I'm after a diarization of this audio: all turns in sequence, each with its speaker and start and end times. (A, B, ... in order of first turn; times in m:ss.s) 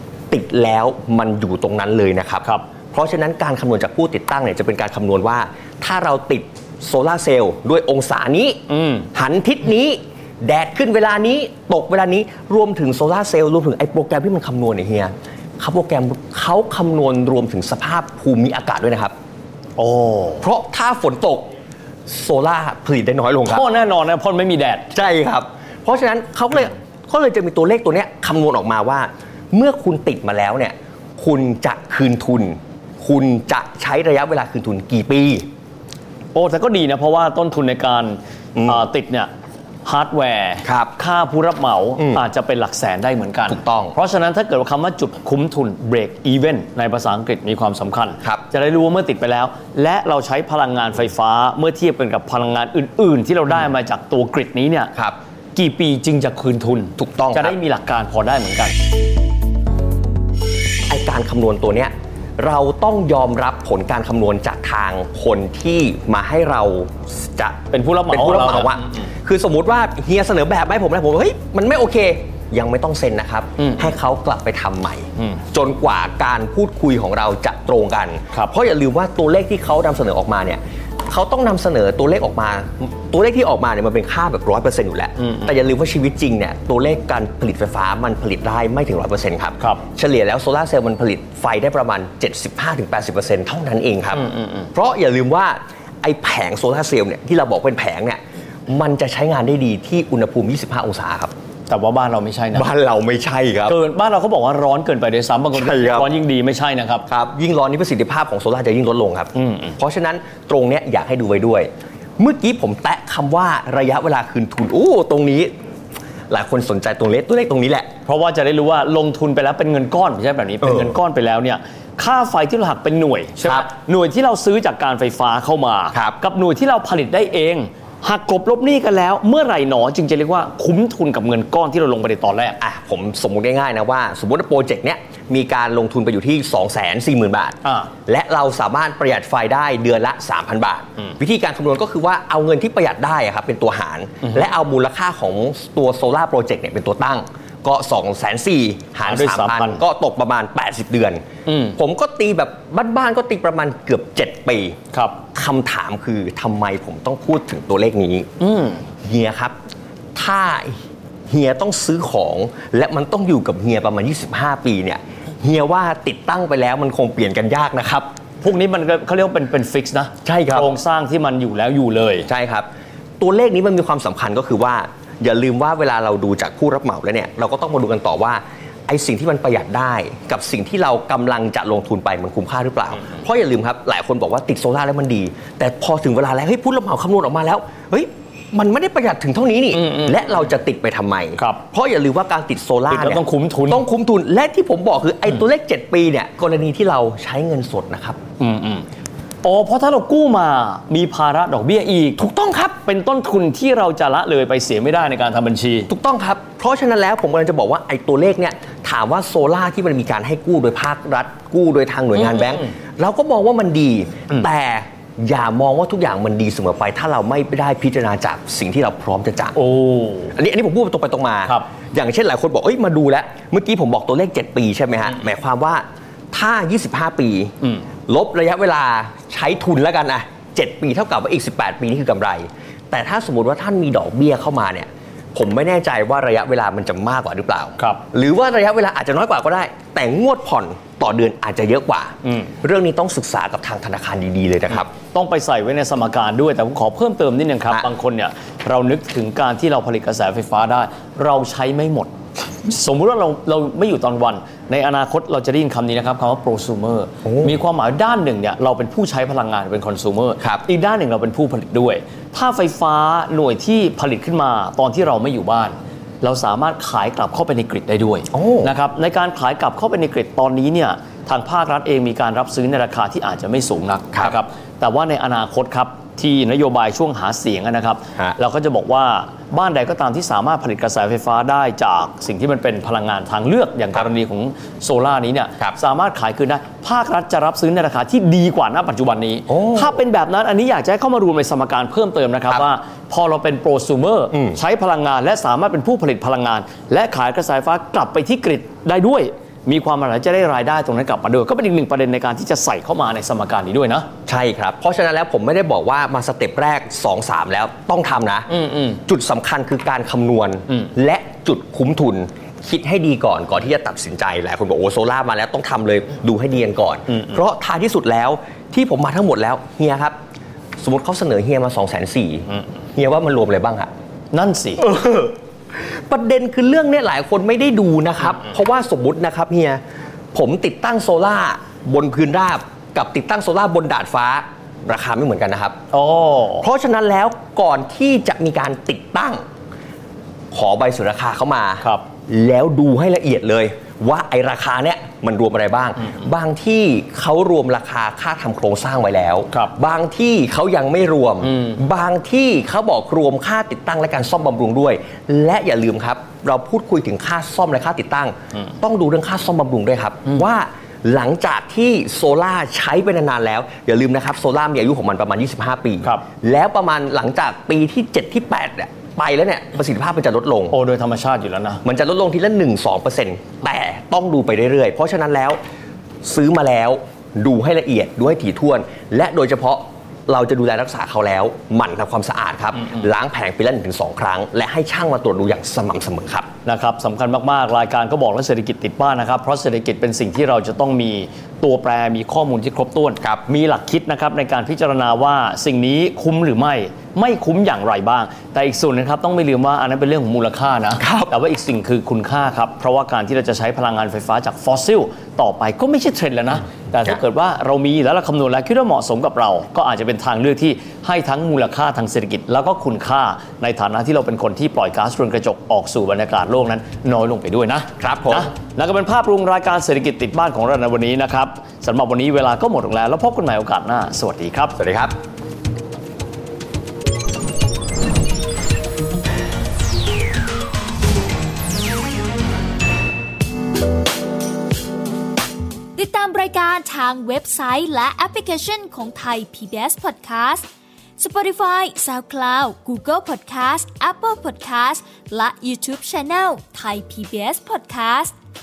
0:00.3-0:08.6 A
0:08.7-0:09.1 B
0:09.1-0:19.1 A
0:19.8-0:20.4 B
0:20.4-0:21.5 A
0:22.1-0:23.6 A
0:23.5-0:24.9 B
0:24.9-0:35.4 A
0:36.3-0:39.3 B
0:38.6-0:38.8 A
0:39.8-0:54.9 B
0:40.6-0:40.9 A
0:42.0-0:42.2 A
0:43.5-0:44.0 A
0:55.5-0:58.7 B
0:57.0-0:57.5 A
1:00.9-1:41.3 A
1:07.7-1:09.1 B
1:25.2-1:25.5 B
1:34.1-1:34.7 B
1:41.7-1:42.7 B
1:42.5-1:43.8 A
1:43.6-1:47.0 B
1:45.5-1:46.1 A
1:47.1-1:55.5 A
1:49.3-1:49.7 B
1:56.3-1:57.9 A
1:58.0-2:12.6 B
2:00.6-2:01.0 A
2:03.4-2:03.7 A
2:12.6-2:31.2 A
2:17.6-2:17.9 B
2:29.0-2:29.8 B
2:31.4-2:31.8 B
2:31.7-2:34.8 A
2:34.9-2:35.2 B
2:35.3-2:38.3 A
2:38.4-2:38.8 B
2:39.0-2:39.6 A
2:40.1-2:40.8 A
2:41.3-2:48.1 A
2:48.4-2:52.3 B
2:50.2-2:50.7 A
2:52.2-2:52.7 A
2:53.2-3:18.2 A
3:09.7-3:10.4 B
3:11.4-3:11.6 B
3:12.9-3:13.8 B
3:18.4-3:18.8 B
3:19.4-3:22.2 B
3:22.2-3:22.8 A
3:22.8-3:25.9 B
3:25.9-3:39.6 A
3:39.6-3:40.3 B
3:40.3-3:47.5 A
3:48.1-4:04.9 A
3:57.8-3:58.0 B
4:04.7-5:04.1 B
4:17.2-4:17.6 A
4:28.3-4:28.7 A
4:34.1-4:34.4 A
4:49.5-4:50.0 A
4:54.3-4:54.6 A
5:04.2-5:08.5 A
5:08.5-5:09.0 B
5:09.0-5:20.2 A
5:20.8-5:23.9 A
5:24.3-5:24.8 B
5:24.8-5:25.4 A
5:25.9-5:29.8 A
5:30.3-5:35.8 A
5:35.9-5:36.7 B
5:36.6-5:39.4 A
5:40.5-6:10.8 A
5:51.4-5:51.8 B
6:10.7-6:11.8 B
6:11.8-6:15.6 A
6:16.2-6:26.5 A
6:26.6-7:04.8 B
6:41.0-6:41.3 A
6:58.0-6:58.5 A
7:04.8-7:05.1 A
7:16.0-7:20.7 C
7:21.2-7:28.3 C